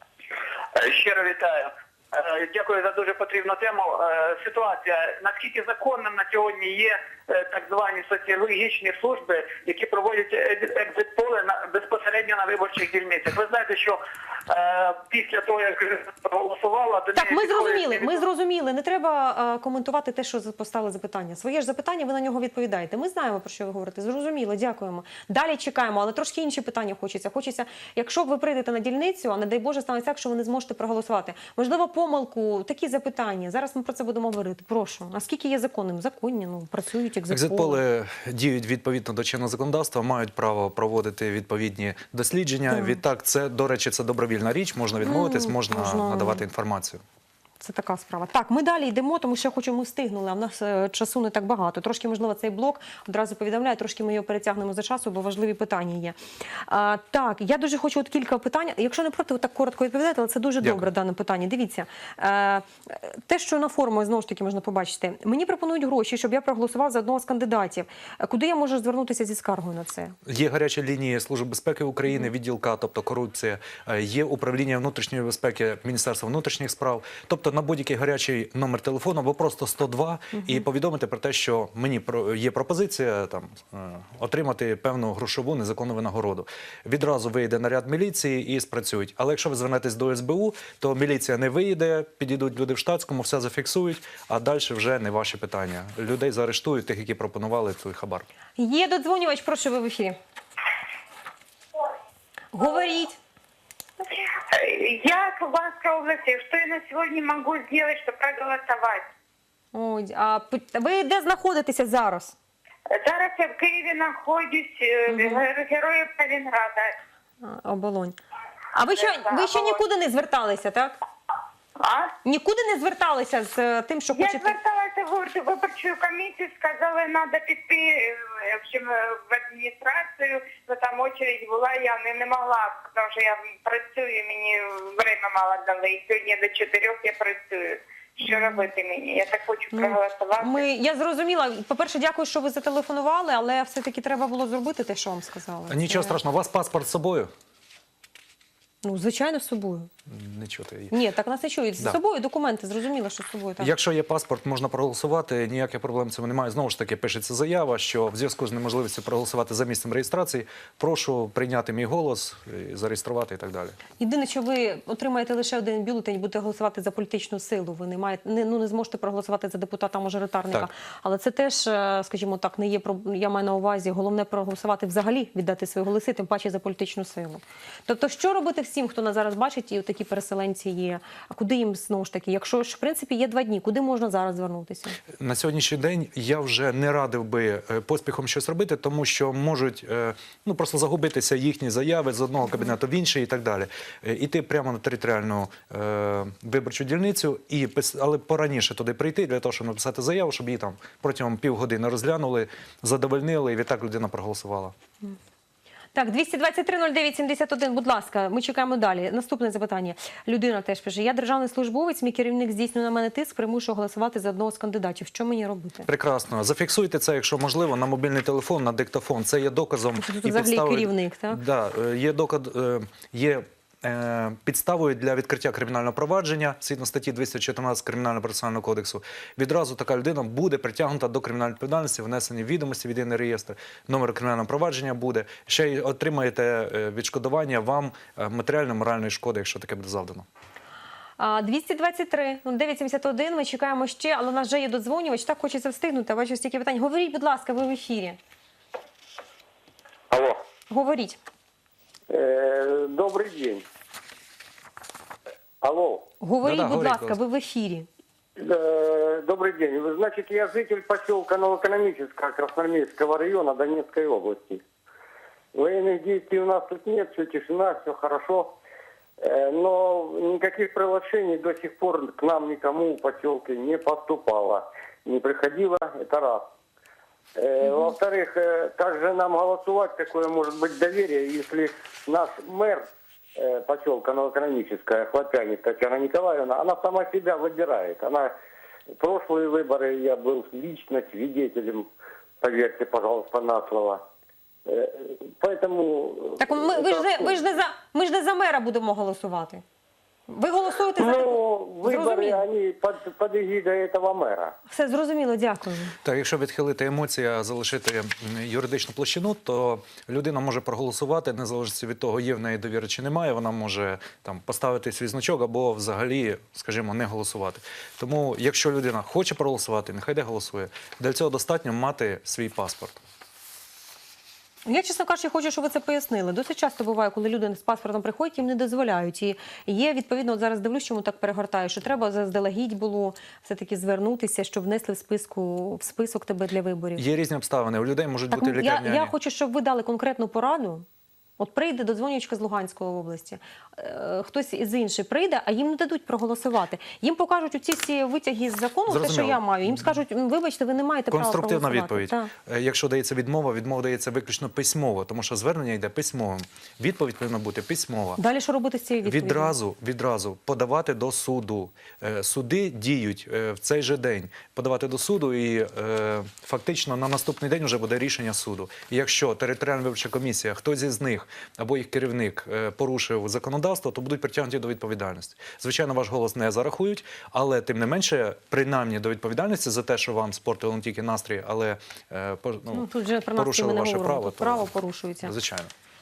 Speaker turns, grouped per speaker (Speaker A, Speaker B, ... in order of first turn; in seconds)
Speaker A: 0.8-18.2
Speaker B: 17.1-37.8, 42.7-43.0, 45.0-46.4, 47.6-56.2, 56.7-70.2, 80.3-80.6, 98.6-100.2, 102.5-103.2, 109.7-112.3, 115.1-115.4, 117.4-118.2, 118.7-121.0, 122.2-124.5, 138.3-138.7, 139.7-146.2, 148.8-149.9, 150.9-153.7, 164.0-185.0, 205.9-215.9, 220.0-221.4, 241.2-248.2, 250.7-251.2, 256.2-257.9, 296.4-299.6, 300.3-302.4, 304.7-306.0, 324.7-337.0, 338.3-340.9, 341.4-352.3, 358.2-359.5, 382.7-385.3
Speaker C: 37.3-47.0, 70.3-98.3, 145.7-147.3, 150.1-150.9, 153.6-163.8, 185.1-204.8, 215.9-240.3, 256.4-257.2, 306.0-323.0, 337.0-339.1, 348.9-350.0, 351.1-358.2, 359.1-384.7, 385.2-385.7
Speaker D: 104.3-109.1, 112.9-117.0, 119.1-119.8, 121.8-122.1, 124.1-140.7
Speaker E: 250.1-250.4, 252.1-253.6, 255.6-256.1, 258.4-264.6, 265.5-268.6, 269.2-276.5, 277.4-288.4, 289.0-291.9, 292.4-294.0, 294.7-297.4, 301.0-304.6